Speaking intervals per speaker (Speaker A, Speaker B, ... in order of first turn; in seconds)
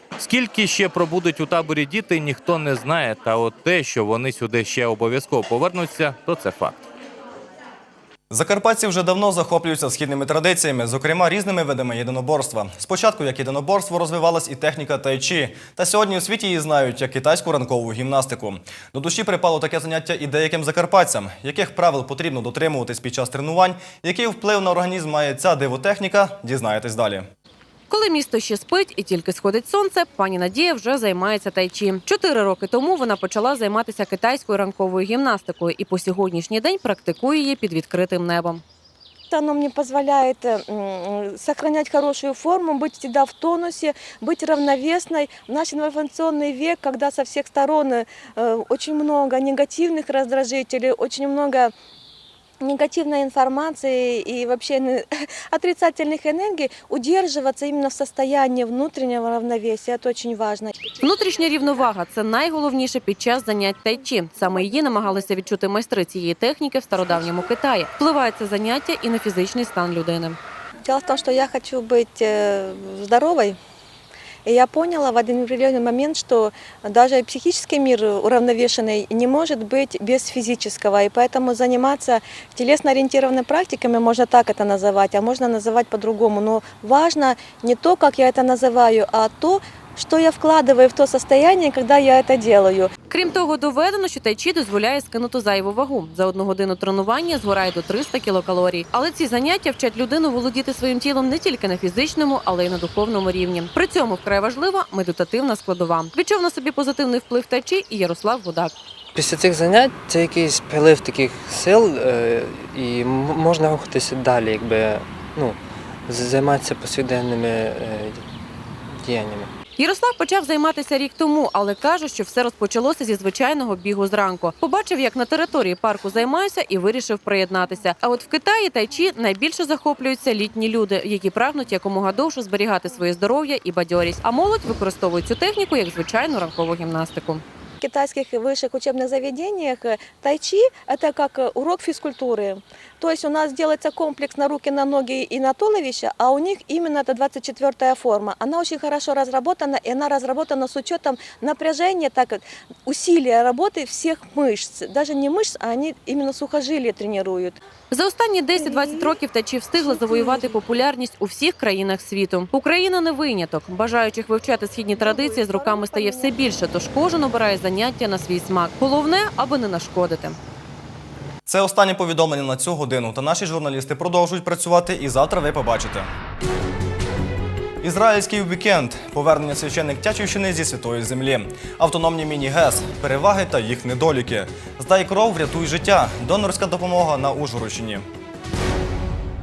Speaker A: 0.2-6.8
Speaker B: 8.3-27.3, 171.5-176.1, 177.8-188.1
Speaker C: 27.9-38.6, 61.0-70.4, 93.1-108.7, 119.8-137.4, 157.9-170.4
Speaker D: 39.3-51.7, 52.6-60.8, 70.8-73.6, 74.5-92.9, 137.8-157.6, 158.6-159.2, 159.8-160.5, 165.0-166.3
Speaker E: 109.1-118.2, 118.9-119.5